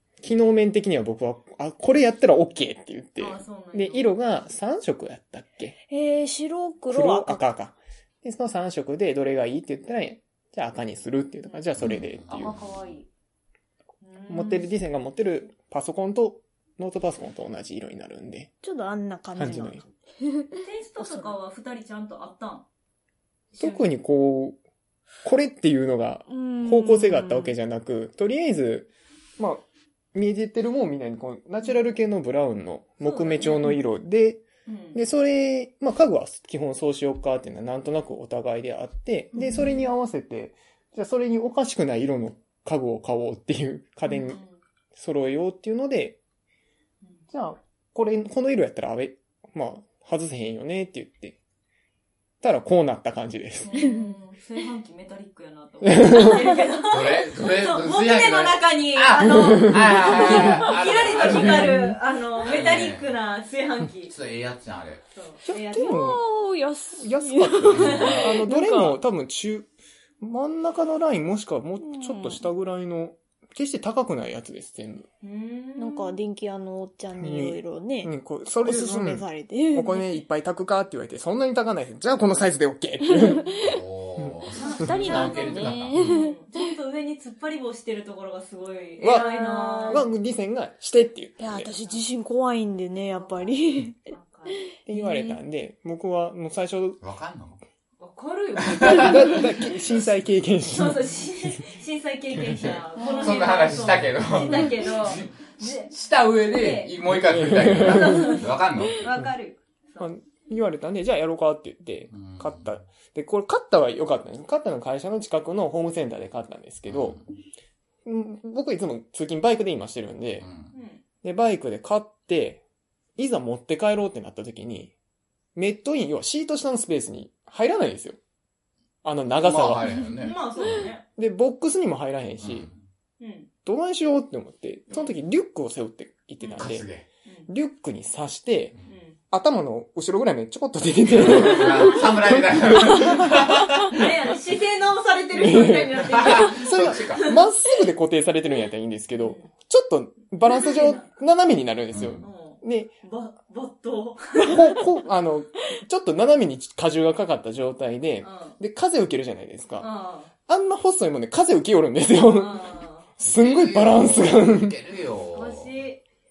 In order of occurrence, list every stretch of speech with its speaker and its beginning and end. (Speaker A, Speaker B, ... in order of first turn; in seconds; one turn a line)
Speaker A: 0.2-5.7
Speaker B: 3.2-4.1
Speaker C: 5.9-7.4
Speaker A: 6.9-12.6
Speaker D: 11.8-13.0
Speaker B: 12.3-13.0
Speaker B: 14.0-14.7
Speaker A: 14.3-18.5
Speaker C: 18.6-21.3
Speaker A: 19.3-19.8
Speaker B: 20.6-22.6
Speaker B: 23.5-23.9
Speaker A: 23.6-24.6
Speaker A: 25.2-44.4
Speaker C: 26.3-27.5
Speaker B: 33.0-33.7
Speaker B: 34.6-35.0
Speaker C: 39.4-39.8
Speaker B: 44.2-44.5
Speaker A: 44.9-46.2
Speaker A: 47.3-51.4
Speaker A: 52.4-53.8
Speaker B: 53.6-64.1
Speaker A: 55.9-56.3
Speaker D: 56.9-61.9
Speaker A: 61.3-62.0
Speaker D: 62.4-63.1
Speaker D: 64.1-65.0
Speaker B: 65.1-66.0
Speaker A: 65.5-66.2
Speaker C: 65.7-69.0
Speaker A: 67.0-69.7
Speaker D: 67.7-68.1
Speaker B: 67.8-68.2
Speaker A: 70.2-75.1
Speaker C: 71.8-72.4
Speaker B: 75.2-76.2
Speaker C: 75.8-80.2
Speaker A: 77.2-83.5
Speaker C: 83.1-83.5
Speaker D: 83.6-86.0
Speaker B: 84.6-90.0
Speaker C: 84.8-86.7
Speaker A: 89.0-89.3
Speaker C: 89.0-90.0
Speaker A: 89.8-91.7
Speaker C: 91.4-94.1
Speaker B: 91.6-92.0
Speaker B: 93.1-94.6
Speaker A: 94.9-97.0
Speaker C: 94.9-95.4
Speaker D: 97.0-97.6
Speaker B: 98.0-99.8
Speaker D: 98.6-99.1
Speaker A: 98.9-101.6
Speaker B: 100.7-106.9
Speaker D: 102.5-109.0
Speaker C: 103.0-103.5
Speaker A: 107.1-108.3
Speaker B: 107.8-110.1
Speaker A: 110.0-117.2
Speaker D: 112.1-112.8
Speaker D: 116.9-117.2
Speaker A: 118.0-120.5
Speaker D: 120.4-120.7
Speaker B: 120.7-121.0
Speaker A: 121.2-122.6
Speaker A: 123.2-124.9
Speaker A: 125.5-128.2
Speaker A: 129.0-130.1
Speaker D: 129.4-130.3
Speaker B: 130.2-131.0
Speaker A: 131.2-132.7
Speaker D: 132.4-132.8
Speaker B: 133.2-133.5
Speaker A: 133.6-136.9
Speaker D: 136.5-137.1
Speaker A: 137.5-138.8
Speaker B: 138.9-139.2
Speaker A: 139.3-143.4
Speaker D: 141.1-143.9
Speaker B: 143.9-147.4
Speaker A: 145.3-152.9
Speaker D: 146.1-147.3
Speaker B: 149.2-149.5
Speaker B: 150.5-151.1
Speaker D: 151.9-152.2
Speaker B: 152.2-154.8
Speaker A: 154.3-159.9
Speaker B: 158.2-158.6
Speaker B: 159.8-160.3
Speaker A: 160.5-164.7
Speaker B: 162.2-163.1
Speaker D: 163.2-165.7
Speaker B: 165.3-166.0